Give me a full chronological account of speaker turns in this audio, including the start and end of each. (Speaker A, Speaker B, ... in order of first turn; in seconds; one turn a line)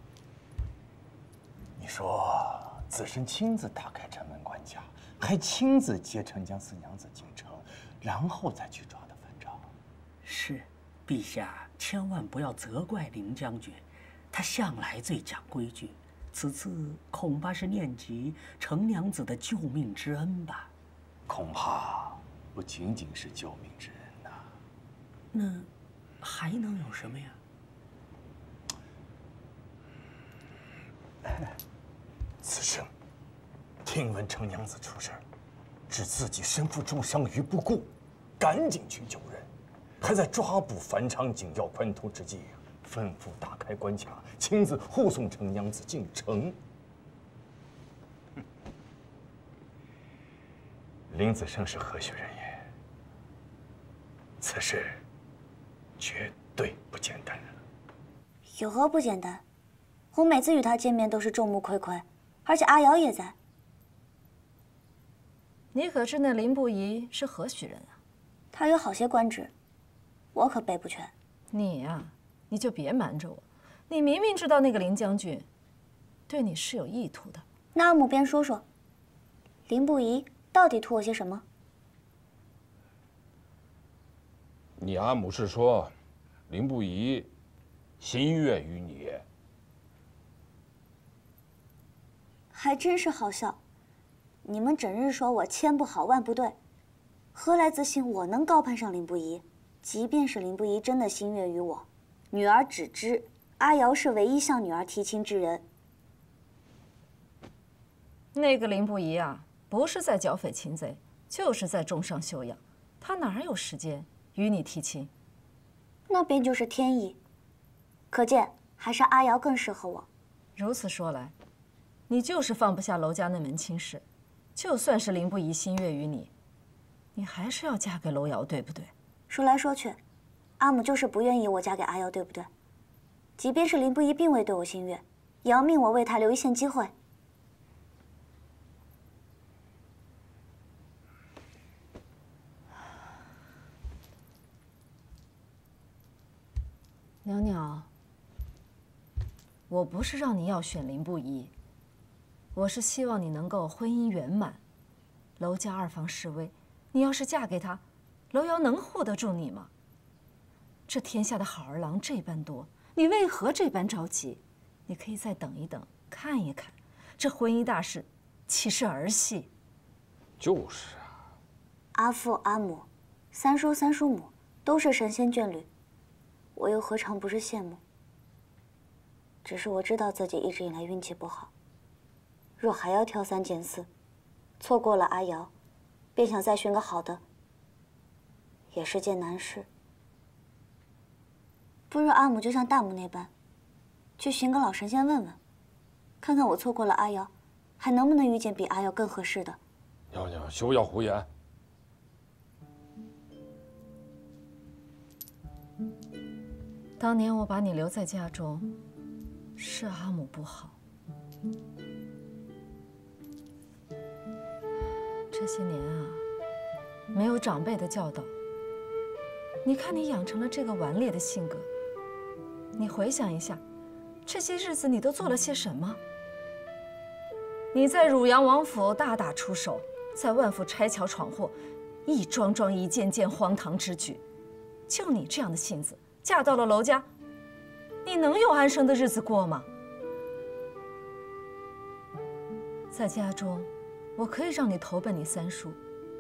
Speaker A: 1.8-9.7
Speaker B: 10.2-20.7
Speaker A: 21.3-24.4
Speaker B: 25.3-25.7
Speaker B: 26.2-27.4
Speaker A: 32.4-32.9
Speaker A: 33.8-35.2
Speaker A: 35.9-39.5
Speaker A: 40.0-46.6
Speaker A: 51.1-52.6
Speaker A: 54.4-55.0
Speaker A: 56.0-57.6
Speaker C: 58.5-59.4
Speaker C: 60.1-63.4
Speaker D: 65.7-68.0
Speaker C: 68.5-69.5
Speaker C: 70.3-71.1
Speaker D: 71.5-75.5
Speaker D: 76.3-77.5
Speaker C: 77.7-78.6
Speaker C: 79.7-81.4
Speaker E: 84.8-85.9
Speaker E: 86.5-87.3
Speaker E: 88.0-89.2
Speaker C: 92.5-93.6
Speaker C: 94.5-96.6
Speaker C: 97.3-105.6
Speaker D: 108.3-115.1
Speaker C: 116.1-117.2
Speaker C: 118.1-120.1
Speaker D: 120.6-121.3
Speaker D: 122.1-124.0
Speaker D: 124.6-126.3
Speaker D: 127.2-128.9
Speaker C: 129.3-130.0
Speaker C: 130.6-132.5
Speaker C: 133.4-136.9
Speaker D: 147.2-147.9
Speaker D: 149.7-151.5
Speaker D: 152.6-154.6
Speaker D: 155.4-159.7
Speaker D: 160.9-169.5
Speaker E: 170.4-171.1
Speaker C: 171.9-175.7
Speaker C: 176.6-177.8
Speaker C: 179.4-181.5
Speaker C: 182.6-183.9
Speaker C: 184.6-185.5
Speaker C: 186.2-187.2
Speaker C: 188.7-189.7
Speaker C: 191.9-193.3
Speaker C: 194.2-195.4
Speaker C: 196.2-199.6
Speaker E: 200.1-201.3
Speaker D: 207.0-208.7
Speaker D: 209.6-210.8
Speaker D: 215.3-216.2
Speaker D: 217.1-218.3
Speaker D: 219.6-221.7
Speaker D: 222.8-223.6
Speaker D: 224.3-226.0
Speaker D: 227.7-234.2
Speaker D: 234.9-237.1
Speaker D: 238.1-239.7
Speaker D: 242.9-245.8